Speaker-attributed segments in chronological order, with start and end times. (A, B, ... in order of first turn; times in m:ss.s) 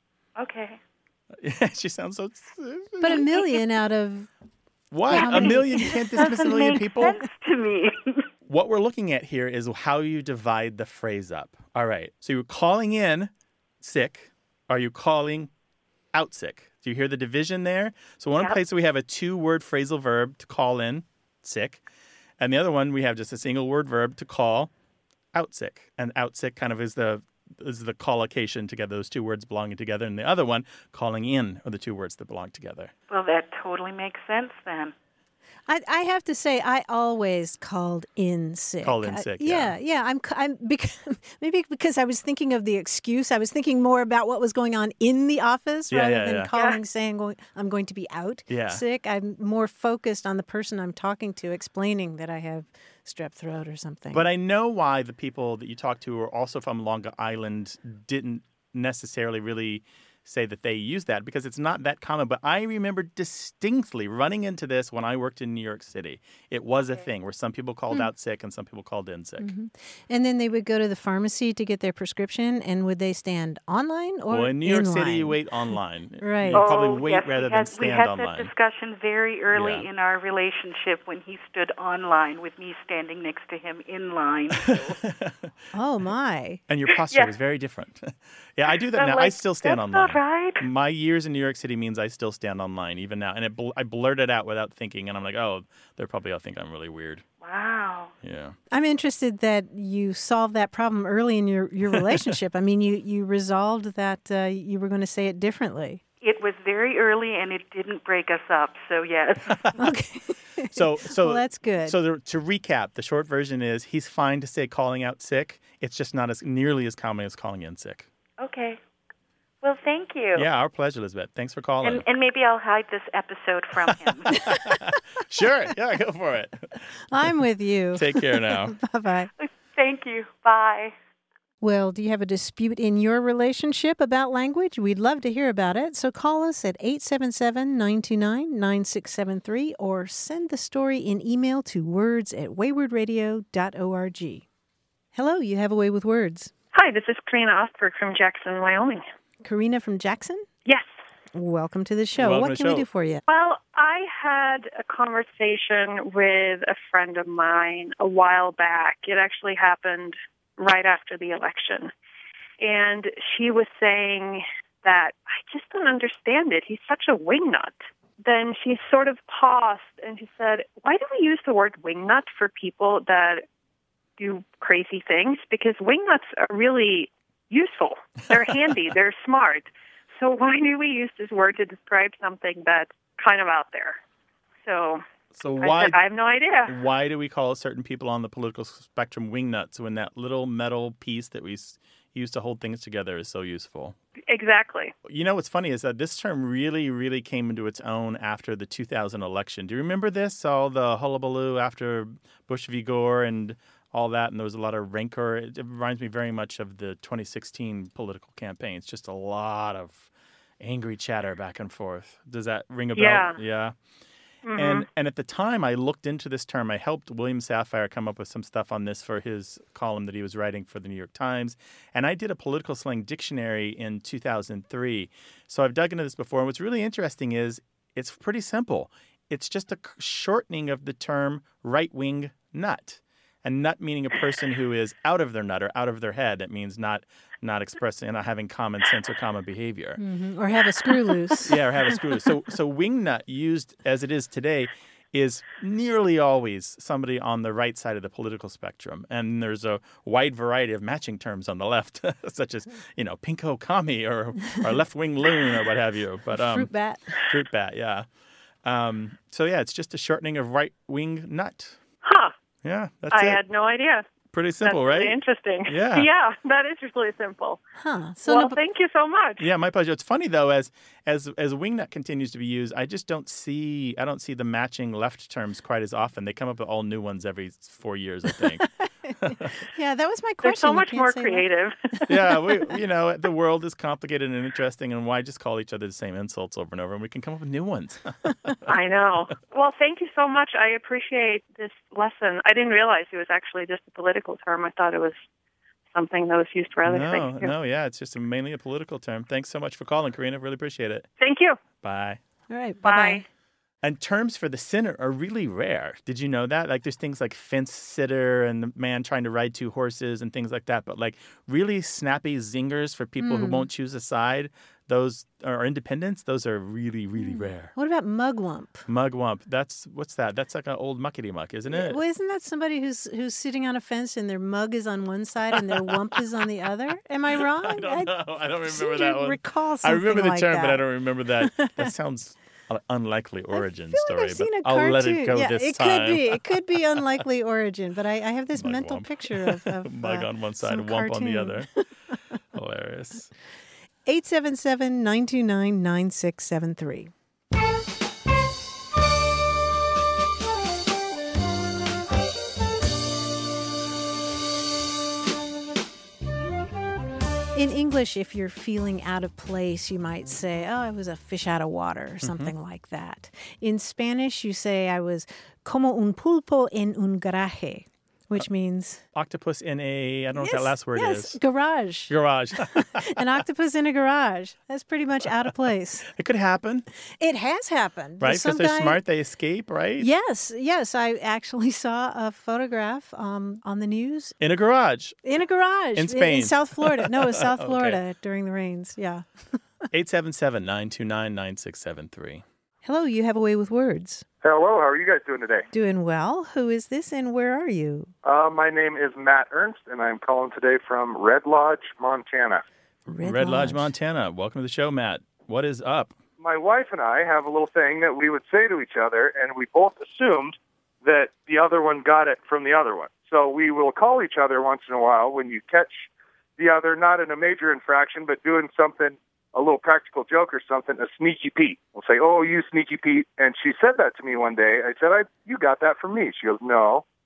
0:00.4-0:00.8 A
0:01.4-0:03.3 B
0:03.0-0:04.3 C
0:04.9-0:07.2 B
0:05.1-0:06.8 C
0:05.1-0:08.2 A
0:08.5-0:15.5 B
0:16.1-0:21.8 B
0:22.4-0:24.7 B
0:25.3-0:32.9 B
0:33.1-0:34.9 A
0:35.7-0:54.2 C
0:38.8-0:39.7 B
0:45.9-0:46.5 B
0:48.5-0:48.8 B
0:54.1-1:09.5 B
1:09.4-1:15.4 C
1:14.3-1:18.5 B
1:16.2-1:16.7 C
1:16.5-1:25.0 A
1:19.5-1:19.9 B
1:24.6-1:25.5 B
1:25.7-1:26.6 C
1:26.7-1:37.2 B
1:26.9-1:27.3 A
1:28.7-1:30.6 A
1:37.4-1:38.1 A
1:38.2-1:38.6 B
1:38.7-1:46.0 C
1:41.9-1:42.3 B
1:46.2-1:49.6 A
1:49.8-1:52.0 C
1:50.7-1:58.1 B
1:58.4-1:58.8 A
1:59.6-2:00.5 A
2:00.3-2:02.0 B
2:01.8-2:04.3 A
2:04.3-2:06.7 B
2:07.1-2:09.3 C
2:07.9-2:08.8 B
2:09.4-2:10.9 A
2:11.6-2:24.4 C
2:25.1-2:26.5 C
2:26.7-2:29.0 D
2:29.4-2:30.5 C
2:31.3-2:33.2 C
2:32.2-2:32.8 B
2:33.3-2:41.9 D
2:42.6-2:53.4 D
2:54.2-3:04.0 D
3:04.6-3:05.0 D
3:05.3-3:06.0 B
3:05.6-3:06.7 D
3:06.7-3:13.9 B
3:14.3-3:14.9 D
3:15.0-3:33.7 B
3:32.9-3:33.4 D
3:34.4-3:34.8 D
3:34.6-4:00.0 B
4:00.0-4:02.0 C
4:01.4-4:16.7 B
4:16.3-4:17.1 C
4:17.2-4:18.0 B
4:18.6-4:21.8 B
4:22.0-4:22.3 D
4:22.6-4:23.4 B
4:23.1-4:24.0 D
4:24.3-4:25.1 B
4:24.6-4:27.6 D
4:25.7-4:26.1 B
4:27.8-4:28.6 C
4:28.2-4:29.5 D
4:29.4-4:38.7 B
4:39.0-4:41.5 C
4:40.4-4:41.9 D
4:42.1-4:48.5 B
4:48.7-4:55.2 D
4:55.9-4:57.5 D
4:56.9-5:01.1 B
5:01.2-5:01.6 D
5:01.8-5:02.2 B
5:02.5-5:03.2 C
5:02.8-5:03.2 D
5:03.8-5:17.7 B
5:13.2-5:13.7 C
5:17.2-5:18.9 C
5:18.9-5:22.0 B
5:21.7-5:30.9 C
5:27.6-5:36.4 B
5:31.4-5:31.9 C
5:33.5-5:42.2 C
5:38.5-5:41.7 B
5:42.5-5:43.3 B
5:44.0-5:47.1 C
5:57.5-6:09.0 C
6:02.2-6:02.5 B
6:09.1-6:11.4 B
6:10.3-6:16.1 C
6:12.1-6:13.1 B
6:16.1-6:16.9 B
6:17.2-6:19.0 C
6:18.2-6:20.1 B
6:20.0-6:24.4 C
6:24.4-6:25.2 B
6:25.2-6:29.6 C
6:25.9-6:28.0 B
6:29.9-6:32.4 B
6:32.8-6:34.2 C
6:34.4-6:35.7 E
6:35.7-6:38.1 C
6:38.2-6:42.6 E
6:43.1-6:43.9 C
6:43.2-6:46.1 B
6:46.4-7:07.0 E